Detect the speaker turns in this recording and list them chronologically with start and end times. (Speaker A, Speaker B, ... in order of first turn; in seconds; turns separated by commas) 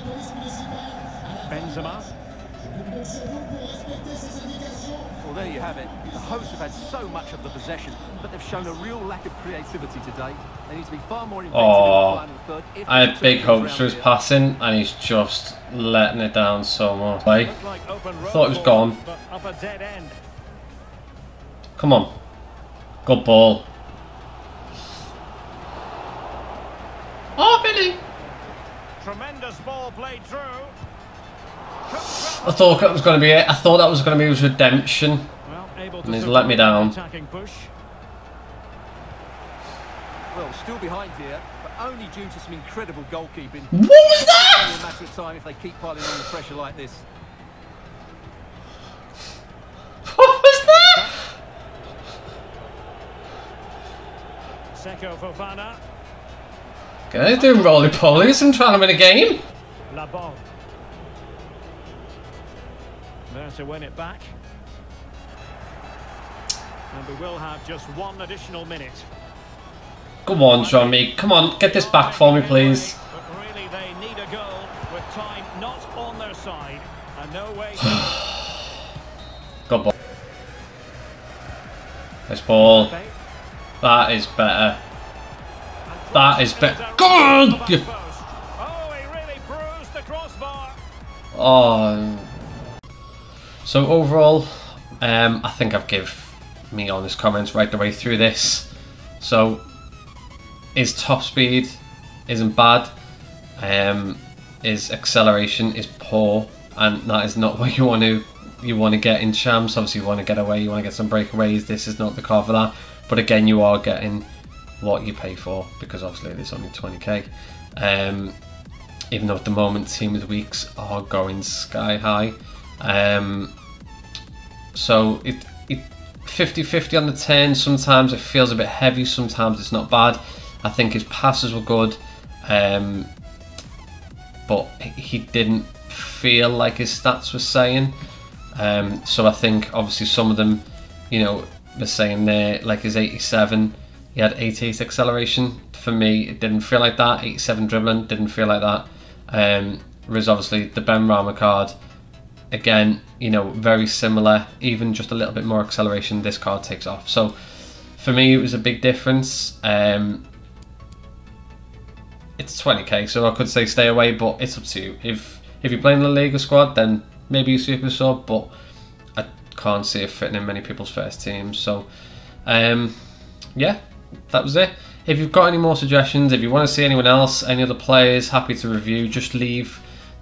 Speaker A: 1.5-2.1, Speaker B: 5.2-14.1, Speaker C: 11.5-12.2, Speaker C: 12.9-17.6, Speaker A: 17.3-20.2, Speaker C: 18.2-19.0, Speaker C: 21.8-22.1, Speaker C: 23.1-23.7, Speaker C: 27.4-28.0, Speaker A: 29.0-30.8, Speaker A: 31.9-33.2, Speaker C: 32.2-35.3, Speaker A: 35.5-37.7, Speaker C: 36.0-37.0, Speaker B: 40.3-47.0, Speaker C: 43.7-44.8, Speaker C: 50.1-51.1, Speaker A: 50.6-51.2, Speaker A: 54.7-55.8, Speaker C: 57.1-59.4, Speaker A: 57.3-58.5, Speaker A: 59.9-60.4, Speaker A: 63.3-64.4, Speaker A: 66.9-69.1, Speaker C: 70.3-73.0, Speaker A: 70.5-78.3, Speaker C: 79.7-79.9, Speaker C: 82.3-82.9, Speaker A: 82.6-83.2, Speaker C: 83.8-84.8, Speaker A: 85.9-90.8, Speaker C: 86.1-87.8, Speaker C: 91.3-92.4, Speaker C: 93.6-99.6, Speaker C: 100.8-102.9, Speaker C: 103.6-114.3, Speaker C: 114.8-118.4, Speaker C: 119.1-123.5, Speaker C: 124.8-133.1, Speaker C: 134.5-137.9, Speaker C: 138.6-151.7, Speaker C: 152.5-157.4, Speaker C: 157.9-160.3, Speaker C: 162.4-168.5, Speaker C: 169.2-171.9, Speaker C: 172.5-173.0, Speaker C: 173.6-179.8